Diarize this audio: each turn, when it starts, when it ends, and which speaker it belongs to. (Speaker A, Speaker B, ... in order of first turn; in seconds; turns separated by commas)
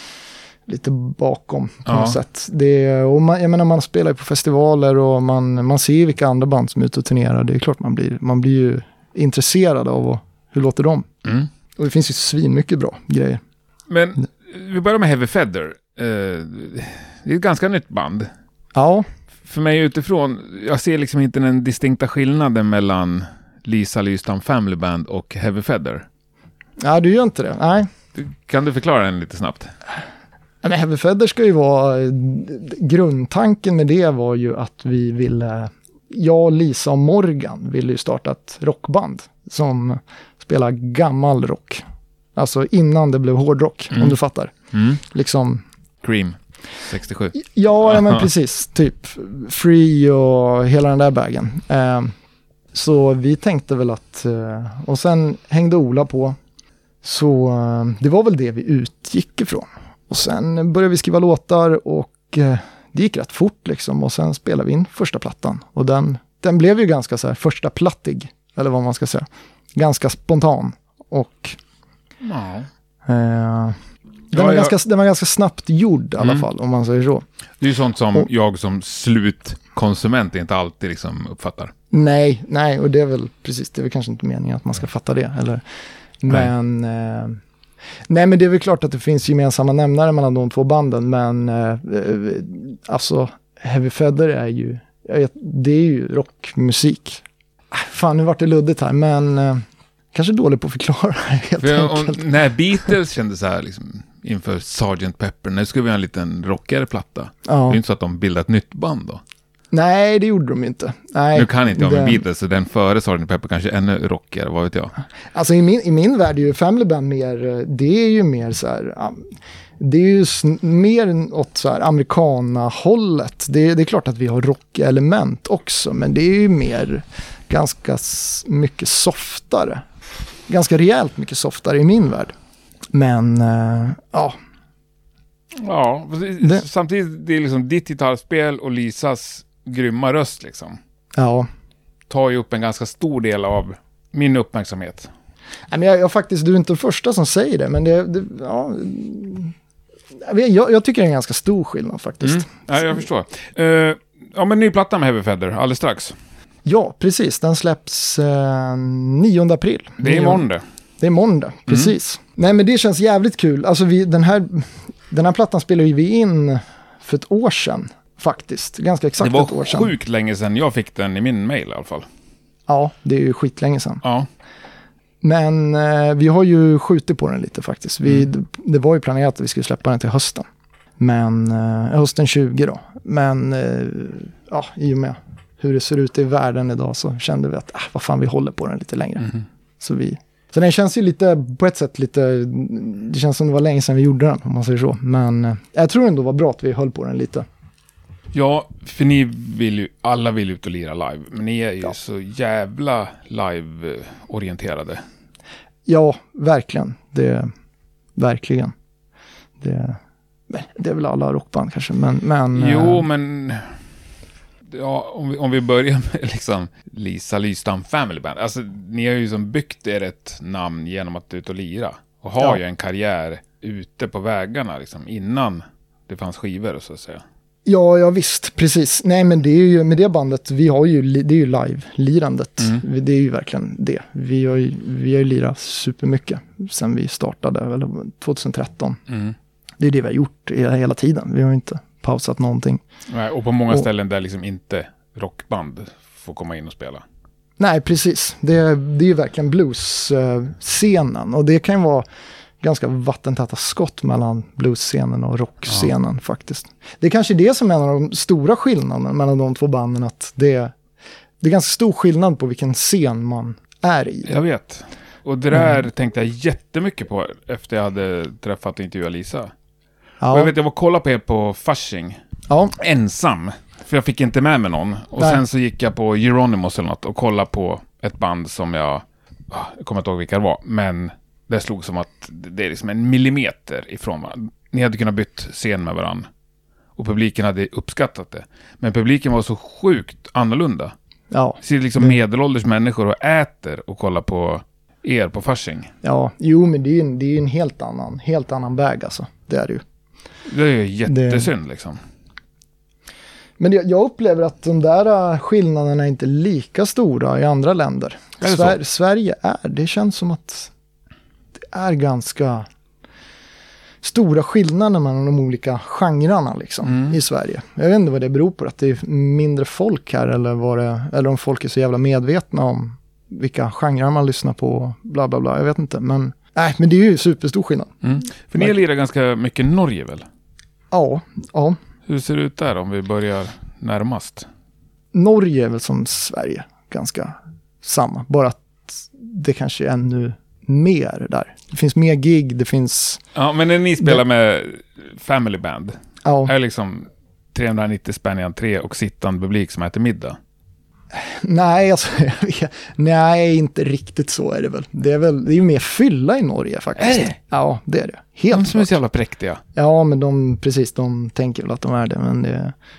Speaker A: 0.7-11.1, Speaker B: 1.9-2.2, Speaker A: 11.8-13.4, Speaker B: 13.9-18.3, Speaker A: 18.7-19.1, Speaker B: 19.4-26.1, Speaker A: 26.8-27.9, Speaker B: 28.1-29.7, Speaker A: 30.6-41.8, Speaker A: 42.4-44.5, Speaker B: 44.7-45.0, Speaker A: 45.1-45.6, Speaker B: 46.0-48.3, Speaker A: 47.3-52.1, Speaker A: 52.7-56.4, Speaker A: 57.0-71.6, Speaker B: 72.2-72.7, Speaker A: 73.0-73.8, Speaker B: 74.3-74.7, Speaker A: 74.3-77.2, Speaker B: 76.2-76.5, Speaker B: 77.6-81.7, Speaker A: 81.9-85.6, Speaker A: 86.2-87.4, Speaker A: 88.1-102.2, Speaker B: 101.6-109.2, Speaker A: 107.5-107.8, Speaker A: 109.7-112.2, Speaker B: 111.3-114.9, Speaker A: 115.3-129.8, Speaker A: 130.5-132.3, Speaker A: 132.9-134.4, Speaker B: 135.6-140.8, Speaker A: 141.2-141.5, Speaker B: 142.1-145.1, Speaker A: 145.7-149.5, Speaker A: 150.2-153.0, Speaker B: 152.2-156.2, Speaker A: 156.6-160.4, Speaker B: 160.0-160.6, Speaker A: 161.0-169.9, Speaker B: 161.7-161.9, Speaker B: 169.2-172.1, Speaker A: 172.7-174.0, Speaker B: 174.0-174.3, Speaker A: 175.2-180.5, Speaker A: 181.0-197.4, Speaker B: 198.3-205.0, Speaker A: 205.9-207.5, Speaker A: 208.2-208.7, Speaker A: 209.6-210.0, Speaker A: 210.5-213.0, Speaker B: 212.5-213.8, Speaker B: 214.6-227.2, Speaker A: 227.6-239.0, Speaker B: 239.1-239.3, Speaker A: 239.8-242.8, Speaker B: 243.1-247.0, Speaker A: 247.6-252.1, Speaker A: 252.6-260.7, Speaker A: 261.4-264.3, Speaker B: 264.2-269.5, Speaker A: 265.5-265.8, Speaker A: 270.2-270.5, Speaker B: 270.3-272.2, Speaker A: 272.5-272.7, Speaker B: 272.8-286.3, Speaker B: 286.9-290.9, Speaker A: 291.3-292.2, Speaker B: 291.6-295.9, Speaker A: 296.0-299.8, Speaker B: 300.5-302.0, Speaker A: 301.1-301.5, Speaker A: 303.6-310.7, Speaker B: 308.4-308.8, Speaker A: 311.6-312.7, Speaker A: 314.0-327.9, Speaker B: 316.8-317.2, Speaker B: 328.0-330.3, Speaker A: 330.9-331.8, Speaker B: 332.1-334.5, Speaker A: 335.1-343.2, Speaker B: 343.3-350.4, Speaker A: 346.2-346.5, Speaker A: 351.1-358.9, Speaker B: 357.0-357.4, Speaker B: 358.5-359.6, Speaker A: 359.7-362.7